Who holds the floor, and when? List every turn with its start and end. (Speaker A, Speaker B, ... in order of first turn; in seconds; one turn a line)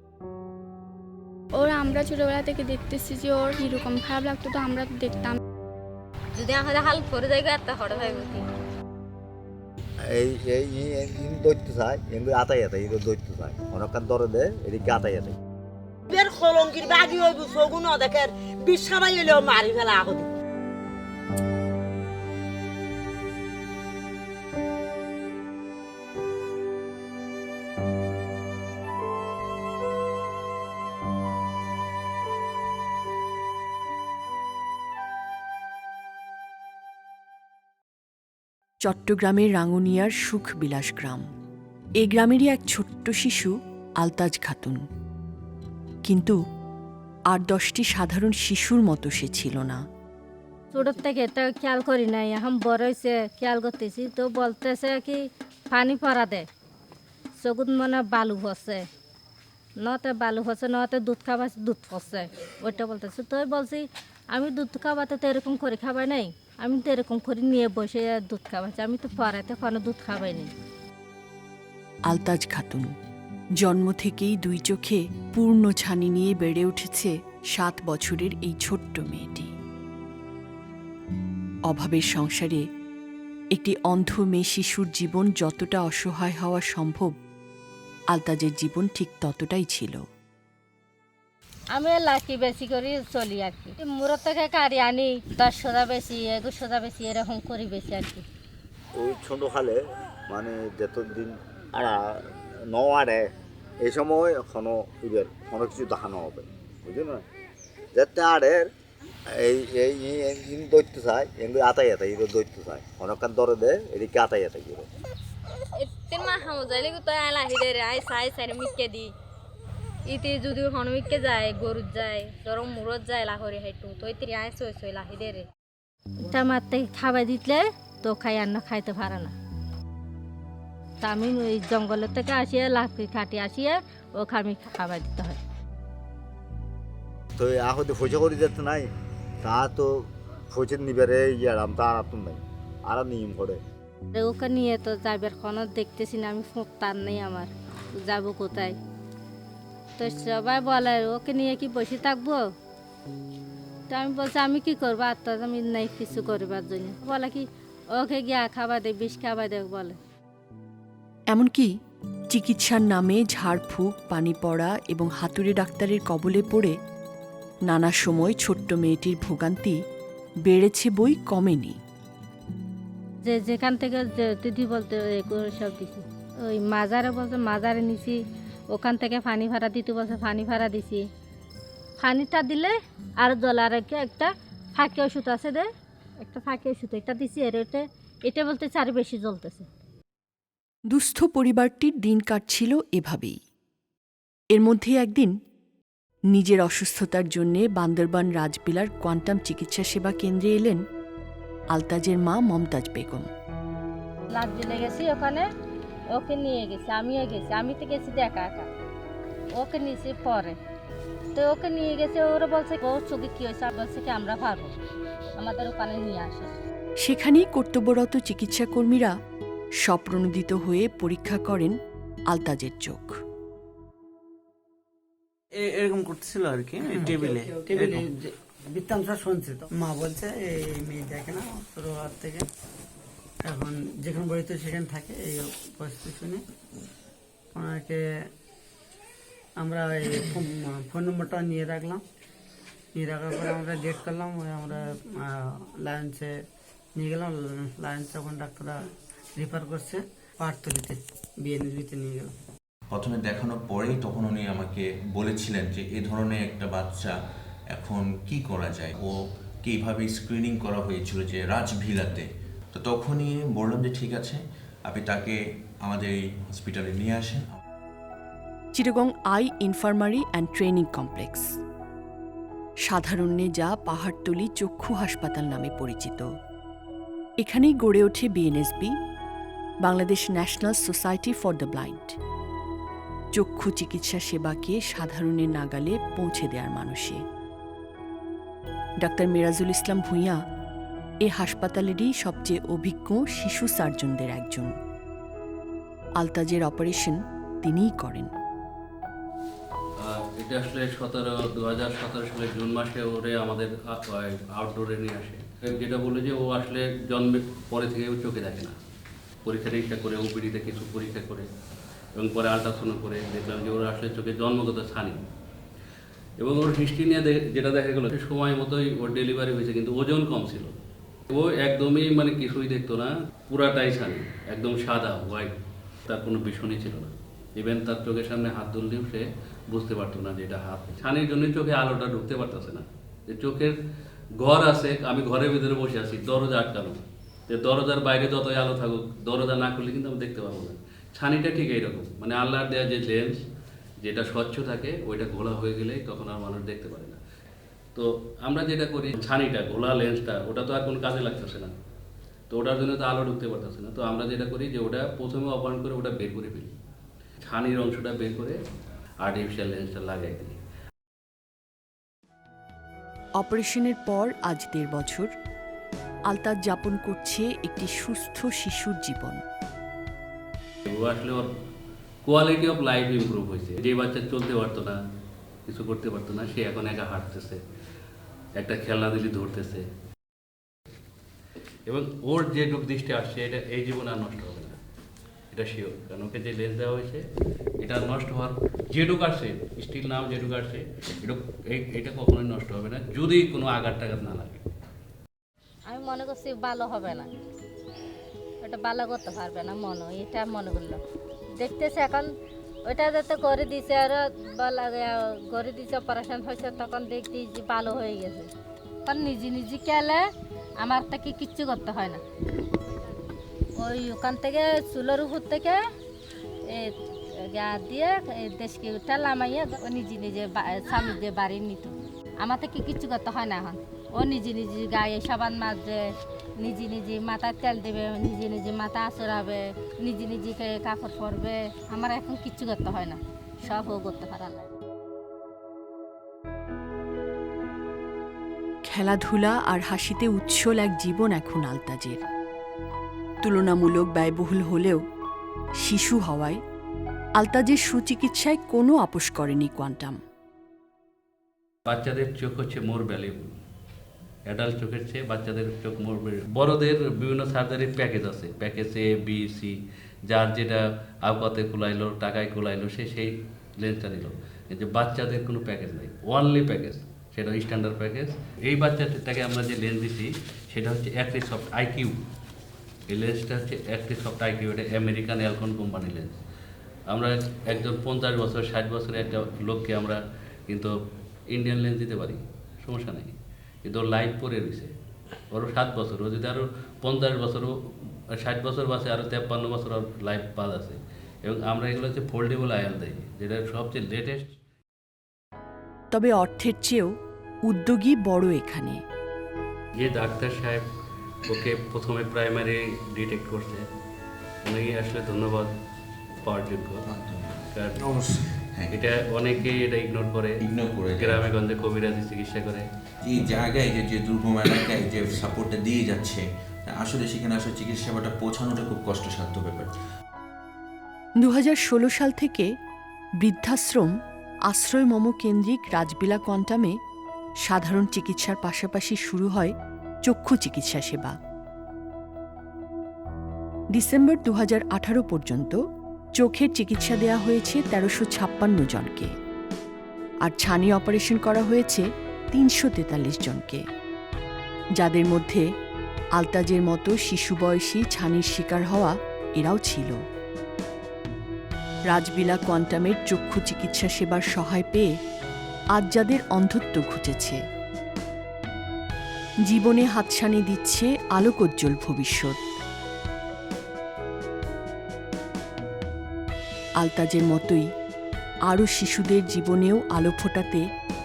Speaker A: 1.5-5.3
Speaker B: 6.4-7.8
Speaker C: 7.0-8.1
Speaker D: 10.1-15.4
Speaker E: 16.1-20.3
Speaker F: 38.8-41.2
Speaker F: 42.0-44.8
Speaker F: 46.0-46.4
Speaker F: 47.3-49.8
Speaker C: 50.7-56.5
Speaker C: 57.4-58.9
Speaker C: 59.8-70.5
Speaker F: 72.1-72.9
Speaker F: 73.6-79.5
Speaker F: 81.7-82.6
Speaker F: 83.5-87.1
Speaker F: 88.1-90.0
Speaker C: 91.7-98.2
Speaker D: 98.9-102.2
Speaker D: 102.7-103.2
Speaker D: 103.8-107.2
Speaker D: 107.9-108.7
Speaker D: 109.3-114.9
Speaker B: 115.7-119.1
Speaker B: 120.0-125.5
Speaker C: 126.2-129.3
Speaker C: 131.0-135.4
Speaker D: 137.4-138.9
Speaker D: 139.4-143.6
Speaker C: 144.1-148.8
Speaker C: 150.0-152.5
Speaker C: 153.9-160.0
Speaker F: 161.3-161.7
Speaker F: 162.3-166.8
Speaker F: 167.7-169.8
Speaker F: 170.5-171.8
Speaker C: 173.2-178.2
Speaker C: 178.7-181.0
Speaker C: 182.0-185.7
Speaker C: 186.2-189.7
Speaker F: 190.9-193.3
Speaker F: 194.5-195.3
Speaker F: 196.3-200.8
Speaker F: 201.7-203.3
Speaker C: 204.3-205.4
Speaker C: 206.1-208.7
Speaker C: 209.6-210.6
Speaker C: 211.3-214.7
Speaker C: 215.4-216.5
Speaker F: 217.0-219.1
Speaker F: 219.8-221.7
Speaker F: 222.3-223.2
Speaker G: 225.5-228.1
Speaker H: 226.9-232.4
Speaker H: 233.4-236.4
Speaker H: 237.5-238.0
Speaker H: 239.6-242.0
Speaker H: 242.9-246.3
Speaker H: 246.9-248.8
Speaker H: 249.3-252.3
Speaker I: 252.9-257.1
Speaker I: 257.7-267.4
Speaker F: 268.8-271.5
Speaker F: 272.9-276.2
Speaker F: 277.4-278.9
Speaker F: 279.8-282.2
Speaker F: 283.4-287.2
Speaker F: 289.0-290.4
Speaker F: 291.2-294.7
Speaker F: 296.2-298.3
Speaker J: 300.0-308.7
Speaker J: 309.4-311.5
Speaker J: 312.2-315.2
Speaker J: 316.4-320.8
Speaker J: 321.3-325.6
Speaker J: 326.1-333.8
Speaker J: 334.4-343.4
Speaker J: 344.0-347.2
Speaker J: 347.9-351.7
Speaker J: 352.5-356.7
Speaker J: 357.4-358.6
Speaker J: 359.2-360.6
Speaker F: 363.4-365.3
Speaker F: 366.3-369.4
Speaker J: 370.9-371.5
Speaker J: 372.2-375.0
Speaker J: 375.7-377.6
Speaker J: 378.6-379.9
Speaker J: 381.9-384.7
Speaker J: 385.5-387.2
Speaker J: 387.8-394.7
Speaker C: 395.9-397.3
Speaker C: 398.6-401.0
Speaker C: 401.6-402.3
Speaker C: 402.9-408.5
Speaker C: 409.0-410.2
Speaker C: 410.8-412.2
Speaker C: 413.8-415.8
Speaker C: 416.6-426.0
Speaker C: 426.6-434.7
Speaker F: 438.9-442.2
Speaker F: 443.4-445.0
Speaker F: 445.8-446.6
Speaker F: 447.4-450.2
Speaker J: 451.9-453.5
Speaker J: 454.5-459.8
Speaker J: 460.3-472.2
Speaker J: 473.1-476.4
Speaker J: 477.1-480.9
Speaker J: 481.5-484.9
Speaker J: 485.5-487.8
Speaker J: 488.3-494.5
Speaker F: 496.1-497.1
Speaker F: 497.7-499.0
Speaker J: 500.0-500.9
Speaker J: 501.5-503.9
Speaker J: 504.6-505.7
Speaker J: 506.4-507.0
Speaker I: 507.1-507.4
Speaker J: 507.7-508.1
Speaker I: 508.0-508.9
Speaker J: 508.9-510.6
Speaker I: 510.6-511.4
Speaker J: 511.1-512.9
Speaker I: 513.2-519.9
Speaker F: 521.4-522.7
Speaker F: 523.4-524.1
Speaker F: 524.7-527.0
Speaker F: 527.7-529.7
Speaker F: 530.2-531.3
Speaker F: 533.9-535.8
Speaker F: 536.4-539.3
Speaker F: 540.5-543.8
Speaker F: 545.0-545.6
Speaker F: 546.4-550.2
Speaker F: 552.1-555.1
Speaker F: 556.0-557.6
Speaker F: 559.7-562.6
Speaker F: 567.0-567.9
Speaker F: 568.7-570.8